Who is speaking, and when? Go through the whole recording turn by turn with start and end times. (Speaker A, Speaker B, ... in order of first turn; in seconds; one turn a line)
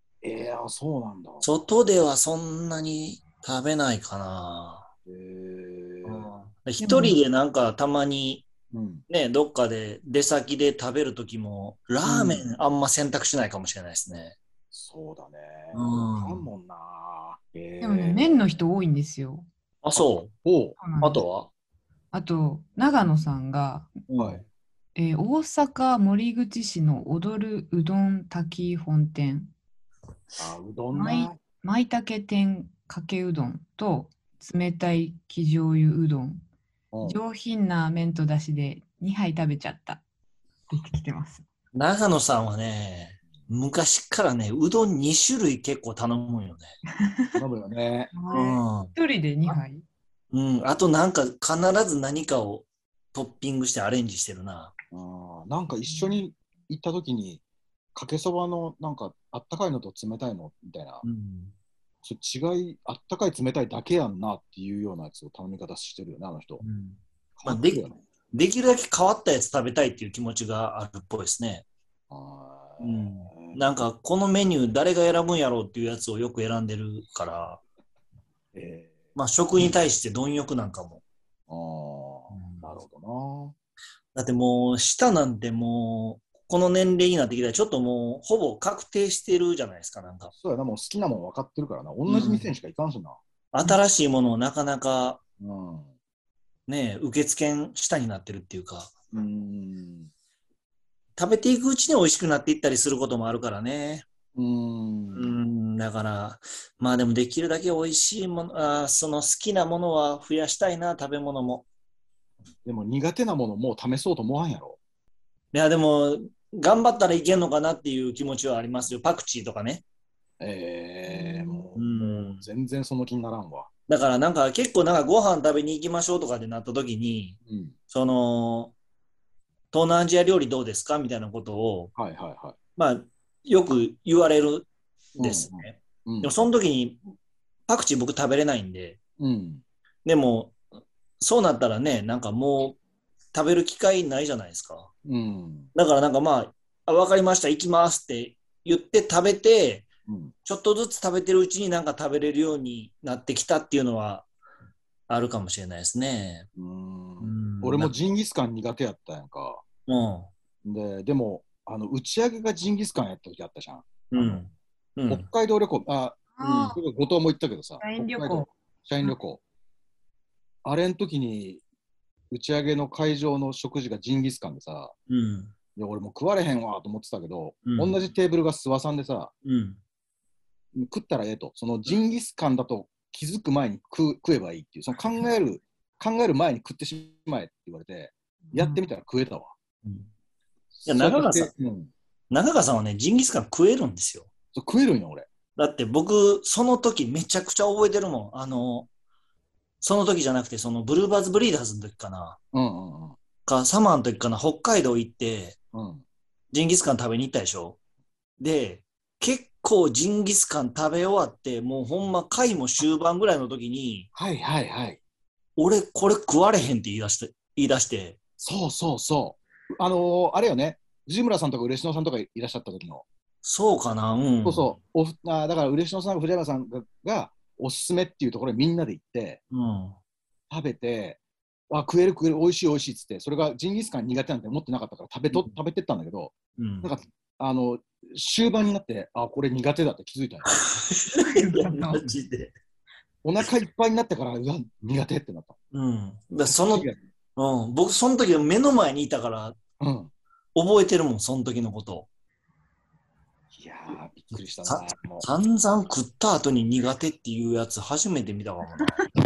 Speaker A: 0.2-1.4
Speaker B: 1.4-4.9
Speaker A: 5.0-6.3
Speaker B: 6.0-8.5
Speaker C: 6.8-7.2
Speaker A: 8.7-9.0
Speaker B: 9.1-14.3
Speaker A: 12.0-12.4
Speaker A: 14.7-18.4
Speaker B: 15.7-16.5
Speaker C: 17.8-19.5
Speaker B: 19.8-20.3
Speaker A: 20.0-20.8
Speaker C: 20.8-21.2
Speaker B: 21.0-21.5
Speaker C: 22.1-23.9
Speaker B: 24.1-24.4
Speaker A: 24.2-24.4
Speaker C: 24.9-29.5
Speaker A: 30.4-31.4
Speaker C: 30.9-36.4
Speaker A: 36.9-37.2
Speaker C: 37.0-40.0
Speaker C: 40.7-41.4
Speaker B: 41.7-46.7
Speaker C: 47.0-47.4
Speaker A: 47.3-48.1
Speaker C: 48.1-49.8
Speaker B: 48.3-48.9
Speaker B: 50.3-54.7
Speaker A: 54.9-57.4
Speaker C: 55.9-56.2
Speaker A: 57.9-61.0
Speaker B: 61.0-61.5
Speaker A: 62.0-66.6
Speaker B: 66.6-67.8
Speaker A: 67.4-68.0
Speaker B: 68.3-71.6
Speaker A: 72.1-73.8
Speaker B: 72.8-77.6
Speaker A: 78.5-79.1
Speaker B: 79.2-81.0
Speaker A: 81.5-83.5
Speaker B: 82.3-82.7
Speaker B: 84.1-90.3
Speaker A: 90.3-93.2
Speaker B: 92.0-92.5
Speaker B: 93.5-95.2
Speaker A: 95.4-95.9
Speaker B: 96.7-99.0
Speaker A: 99.1-100.1
Speaker B: 101.2-104.0
Speaker A: 104.3-105.4
Speaker B: 105.1-111.6
Speaker A: 112.6-114.8
Speaker B: 115.5-119.8
Speaker A: 120.4-123.7
Speaker C: 121.0-121.7
Speaker B: 121.8-122.5
Speaker B: 123.9-127.4
Speaker A: 127.5-127.7
Speaker B: 127.9-128.7
Speaker B: 129.7-131.9
Speaker A: 131.9-132.6
Speaker B: 132.8-137.0
Speaker A: 135.2-136.4
Speaker B: 137.7-139.0
Speaker A: 139.2-139.6
Speaker B: 140.0-140.6
Speaker B: 141.2-142.8
Speaker B: 143.3-144.9
Speaker A: 145.1-145.7
Speaker B: 145.7-149.9
Speaker A: 150.1-150.3
Speaker B: 150.4-154.3
Speaker B: 155.1-156.5
Speaker A: 156.6-159.6
Speaker B: 157.2-157.9
Speaker B: 159.9-160.3
Speaker A: 160.6-164.4
Speaker B: 164.1-165.2
Speaker A: 165.1-169.4
Speaker C: 166.3-166.8
Speaker C: 167.8-168.5
Speaker A: 170.6-171.6
Speaker A: 172.3-174.9
Speaker B: 175.1-175.5
Speaker A: 175.8-179.3
Speaker B: 177.6-178.0
Speaker B: 179.4-179.8
Speaker A: 180.7-189.5
Speaker C: 188.5-188.8
Speaker B: 189.8-190.1
Speaker A: 190.7-191.9
Speaker B: 190.8-191.5
Speaker B: 192.3-194.3
Speaker A: 194.5-195.3
Speaker B: 195.6-198.9
Speaker B: 199.8-202.4
Speaker A: 202.5-203.2
Speaker B: 203.4-205.6
Speaker A: 205.7-206.0
Speaker B: 206.5-207.8
Speaker B: 208.4-214.1
Speaker A: 214.1-215.0
Speaker B: 215.6-218.2
Speaker A: 218.4-223.0
Speaker B: 223.4-224.7
Speaker A: 224.4-229.4
Speaker B: 229.5-230.0
Speaker A: 230.5-240.6
Speaker B: 236.6-236.9
Speaker B: 240.5-242.5
Speaker C: 241.1-242.1
Speaker A: 243.2-245.6
Speaker B: 245.7-249.6
Speaker A: 246.5-247.0
Speaker A: 249.8-250.1
Speaker B: 250.5-252.1
Speaker A: 253.5-255.3
Speaker B: 254.6-259.0